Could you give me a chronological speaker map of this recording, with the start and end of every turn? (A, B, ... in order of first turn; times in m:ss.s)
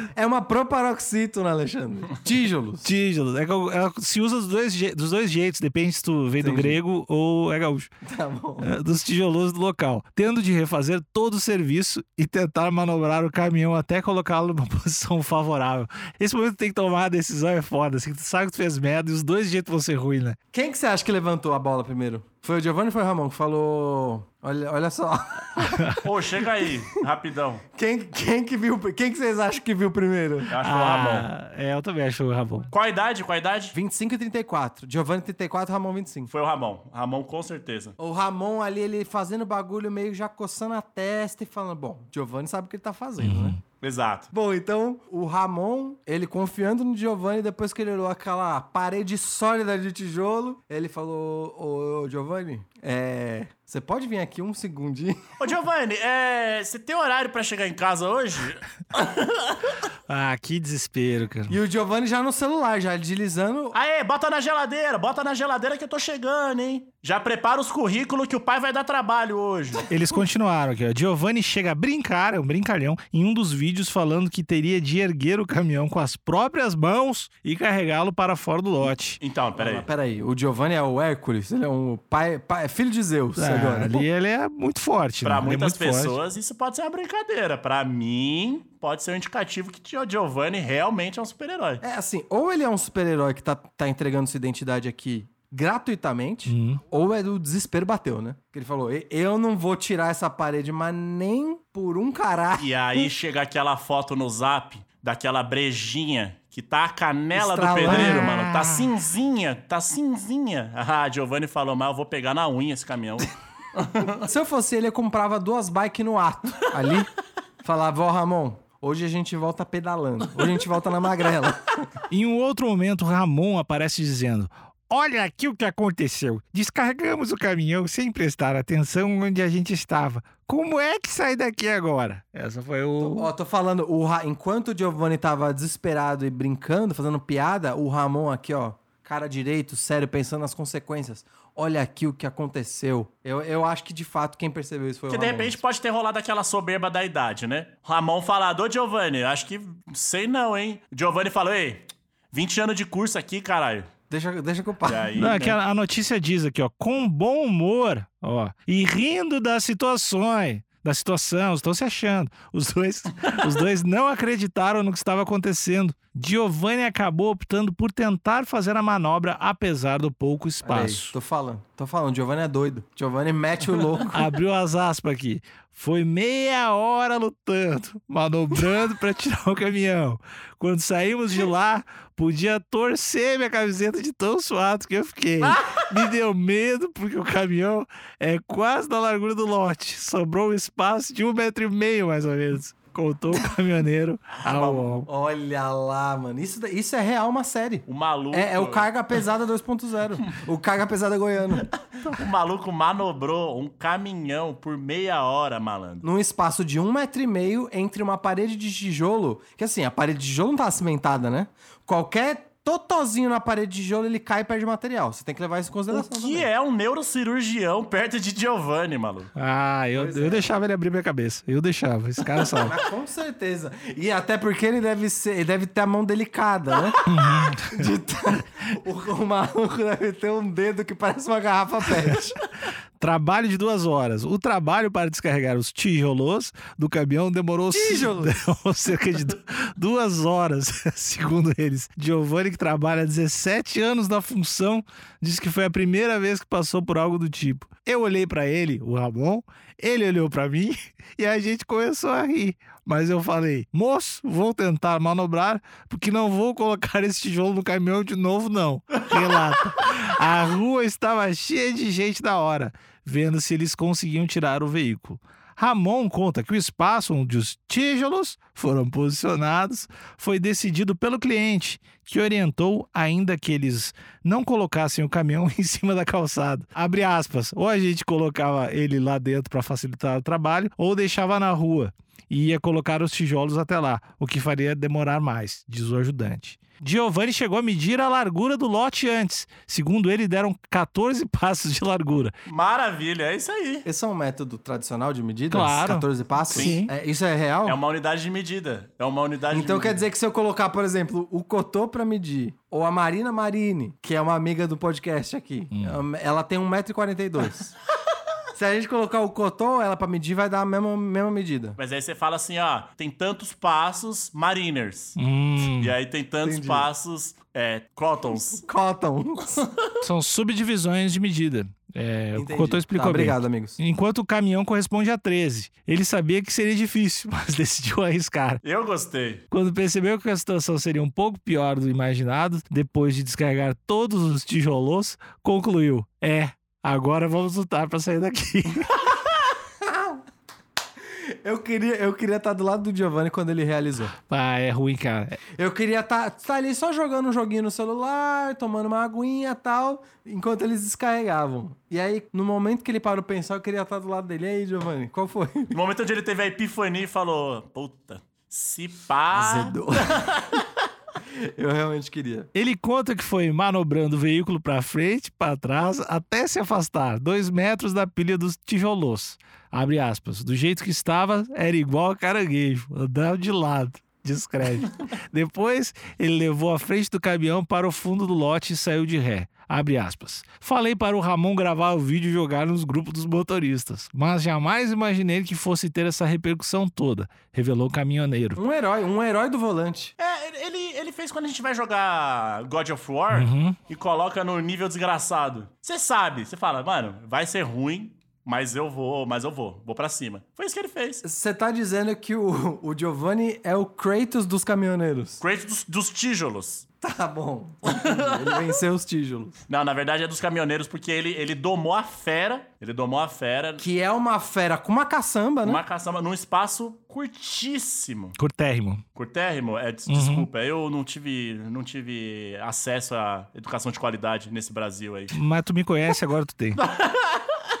0:00.1-0:02.9 A
0:02.8-0:07.9 B
0:06.4-0:06.8 A
0:08.1-0:08.7 A
0:08.6-0:20.4 B
0:20.5-0:26.0 A
0:26.0-0:27.6 C
0:27.7-0:30.5 A
0:30.5-0:31.3 C
0:30.6-0:32.7 B
0:32.7-0:33.7 C
0:33.7-0:36.3 A
0:36.3-0:38.0 C
0:38.0-0:43.6 A
0:43.2-0:43.6 B
0:43.8-0:44.3 C
0:44.3-0:55.3 A
0:55.4-0:59.7 C
1:00.1-1:01.6 B
1:01.5-1:03.8 A
1:03.7-1:09.8 C
1:09.9-1:19.2 B
1:19.2-1:19.9 C
1:19.5-1:24.0 A
1:23.4-1:26.2 B
1:25.2-1:31.8 C
1:31.8-1:43.1 A
1:36.5-1:36.8 B
1:42.6-1:54.2 C
1:47.3-1:48.3 A
1:47.8-1:48.9 B
1:54.2-1:57.1 A
1:57.6-2:01.6 A
2:02.1-2:13.3 B
2:13.0-2:25.6 A
2:25.1-2:33.9 C
2:34.1-2:35.1 A
2:34.8-2:35.6 C
2:35.2-2:51.1 B
2:50.6-2:54.2 A
2:54.1-3:15.1 B
3:14.4-3:14.9 C
3:15.0-3:21.7 A
3:17.9-3:18.9 C
3:22.0-3:26.0 C
3:26.0-3:36.5 A
3:35.9-3:39.3 C
3:39.4-3:42.7 B
3:39.9-3:40.5 A
3:42.6-3:47.0 A
3:47.0-3:47.8 B
3:47.7-3:52.3 A
3:53.0-4:52.3 B
3:57.7-3:58.4 A
4:52.4-4:53.8 C
4:53.8-4:57.8 A
4:55.5-4:56.9 B
4:56.5-4:56.8 C
4:57.6-5:00.0 C
4:59.5-5:07.7 A
5:05.7-5:06.0 B
5:08.6-5:11.8 A
5:11.8-5:18.7 C
5:15.2-5:15.9 B
5:16.4-5:16.9 A
5:18.6-5:19.6 A
5:20.0-5:28.6 B
5:22.3-5:23.8 A
5:28.6-5:29.4 C
5:29.5-5:38.9 B
5:39.9-5:40.2 A
5:41.4-5:44.1 A
5:44.3-5:45.4 B
5:45.6-5:55.7 A
5:55.7-6:00.6 C
5:59.3-6:00.2 A
6:01.6-6:02.5 A
6:02.5-6:28.6 B
6:28.6-6:30.1 A
6:30.2-6:41.2 C
6:33.3-6:33.8 B
6:41.2-6:45.4 A
6:45.4-6:46.8 C
6:47.0-6:49.6 A
6:47.8-6:48.7 C
6:49.7-6:53.8 C
6:53.8-6:55.8 A
6:55.6-6:58.4 C
6:58.4-6:59.0 B
6:59.2-7:05.4 C
7:00.1-7:00.5 B
7:05.3-7:06.8 B
7:06.8-7:07.5 C